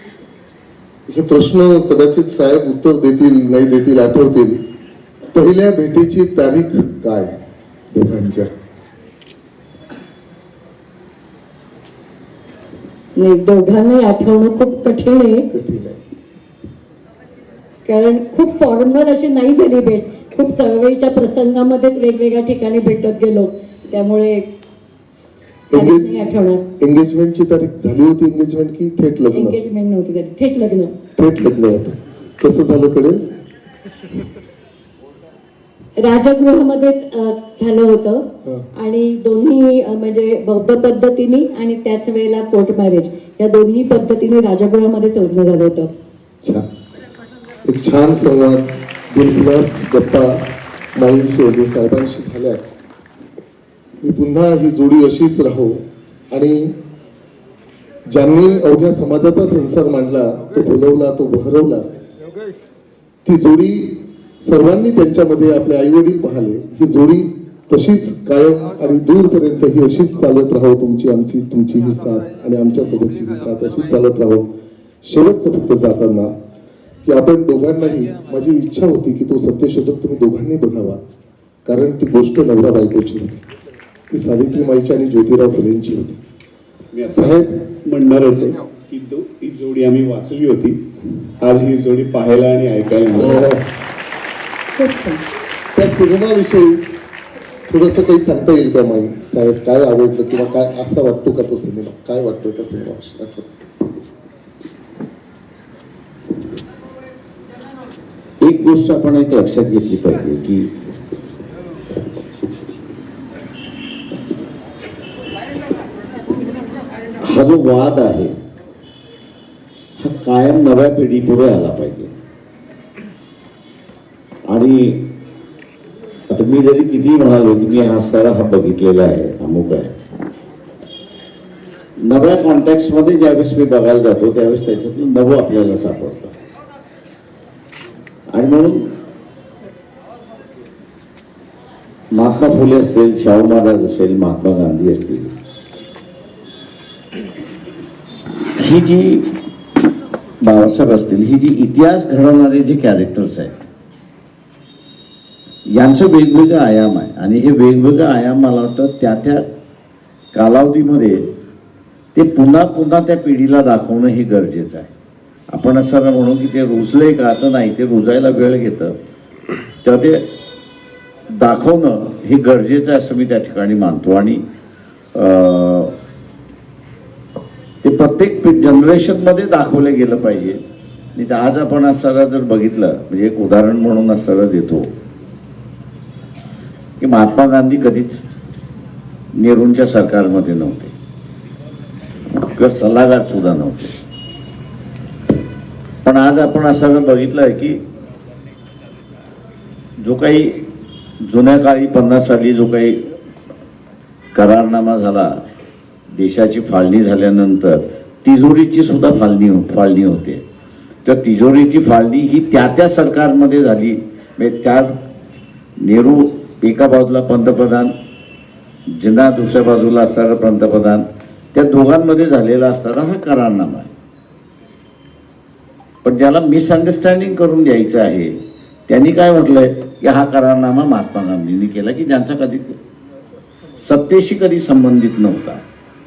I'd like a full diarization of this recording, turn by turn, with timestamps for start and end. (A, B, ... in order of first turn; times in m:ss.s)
0:01.1-0:04.6 A
0:05.3-0:07.4 A
0:07.9-0:08.5 A
0:13.2-0:15.5 B
0:15.5-0:16.0 A
0:17.8-0:24.5 B
0:25.7-0:26.2 A
0:25.7-0:26.6 B
0:26.8-0:29.6 A
0:29.3-0:31.0 B
0:31.2-0:33.3 A
0:36.0-0:45.9 B
0:47.6-0:52.7 A
0:54.0-0:56.8 A
0:58.1-1:02.0 A
1:03.2-1:14.5 A
1:15.0-1:16.3 A
1:17.0-1:21.0 A
1:21.6-1:23.4 A
1:24.1-1:26.2 A
1:26.9-1:33.5 C
1:27.1-1:27.6 A
1:33.1-1:33.6 A
1:34.8-1:35.2 B
1:35.7-1:36.9 A
1:37.7-1:43.7 A
1:48.4-1:50.7 D
1:57.2-1:58.4 D
2:00.0-2:02.1 D
2:04.5-2:05.2 D
2:06.3-2:09.9 D
2:12.0-2:16.3 D
2:18.3-2:19.0 D
2:22.1-2:25.3 D
2:28.5-2:29.4 D
2:30.4-2:33.6 D
2:35.7-2:39.5 D
2:40.3-2:41.3 D
2:42.1-2:44.9 D
2:45.5-2:49.0 D
2:49.8-2:50.3 D
2:51.3-2:54.4 D
2:55.1-2:56.0 D
2:57.8-3:00.6 D
3:01.1-3:04.9 D
3:07.0-3:08.2 D
3:09.3-3:10.9 D
3:12.3-3:14.0 D
3:16.0-3:17.8 D
3:20.0-3:23.1 D
3:24.3-3:25.4 D
3:26.1-3:30.4 D
3:31.0-3:35.0 D
3:35.8-3:37.9 D
3:38.9-3:43.9 D
3:46.0-3:52.8 D
3:53.8-3:55.6 D